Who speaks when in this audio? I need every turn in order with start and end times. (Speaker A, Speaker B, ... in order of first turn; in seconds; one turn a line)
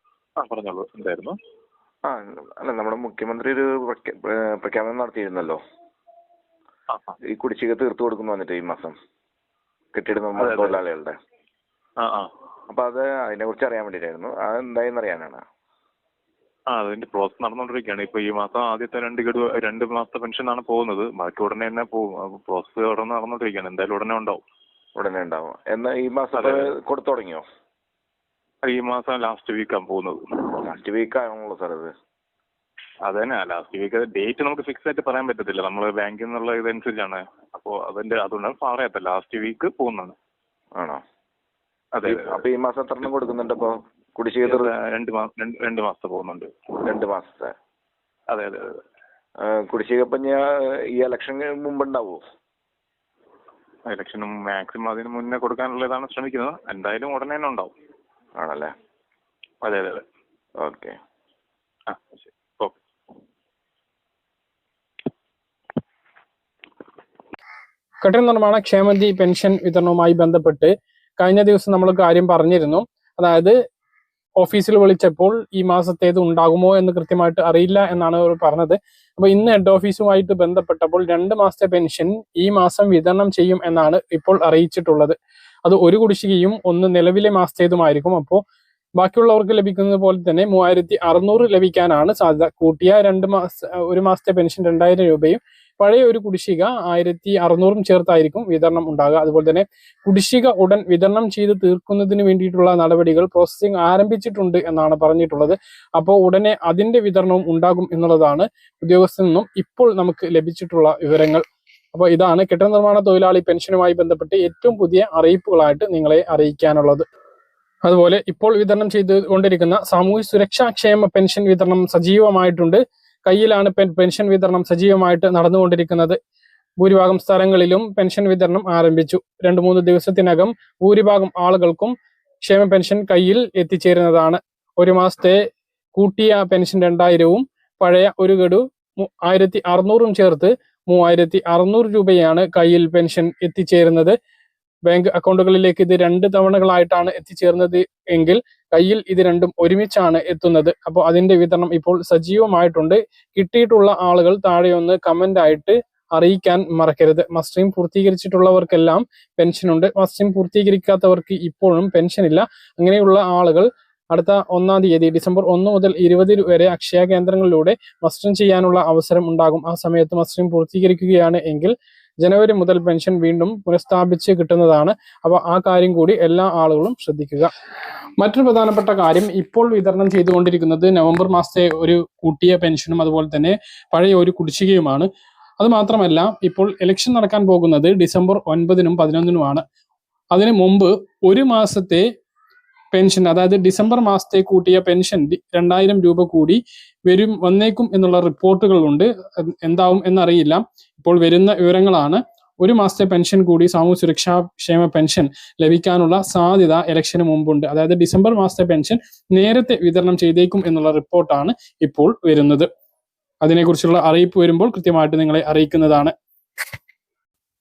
Speaker A: 0.4-1.4
Speaker B: 2.0-5.6
Speaker A: 6.9-7.2
Speaker B: 7.3-9.0
Speaker B: 9.9-11.2
Speaker A: 10.4-10.8
Speaker A: 12.0-12.3
Speaker B: 12.7-15.4
Speaker A: 16.7-24.4
Speaker B: 25.0-27.4
Speaker A: 26.4-26.7
Speaker A: 28.6-30.6
Speaker B: 30.6-31.9
Speaker A: 33.1-40.1
Speaker B: 40.8-41.0
Speaker A: 42.0-42.4
Speaker B: 42.0-44.7
Speaker A: 44.5-46.5
Speaker B: 46.8-47.5
Speaker A: 48.3-48.8
Speaker B: 49.4-52.2
Speaker A: 53.9-57.7
Speaker B: 58.4-58.7
Speaker A: 59.6-60.0
Speaker B: 60.6-61.0
Speaker A: 61.9-62.8
Speaker C: 68.0-73.5
Speaker C: 74.4-88.4
Speaker C: 89.0-117.0
Speaker C: 117.8-126.2
Speaker C: 126.8-144.2
Speaker C: 144.9-177.5
Speaker C: 178.2-185.1
Speaker C: 185.6-189.6
Speaker C: 190.3-192.1
Speaker C: 192.9-212.7
Speaker C: 213.4-216.1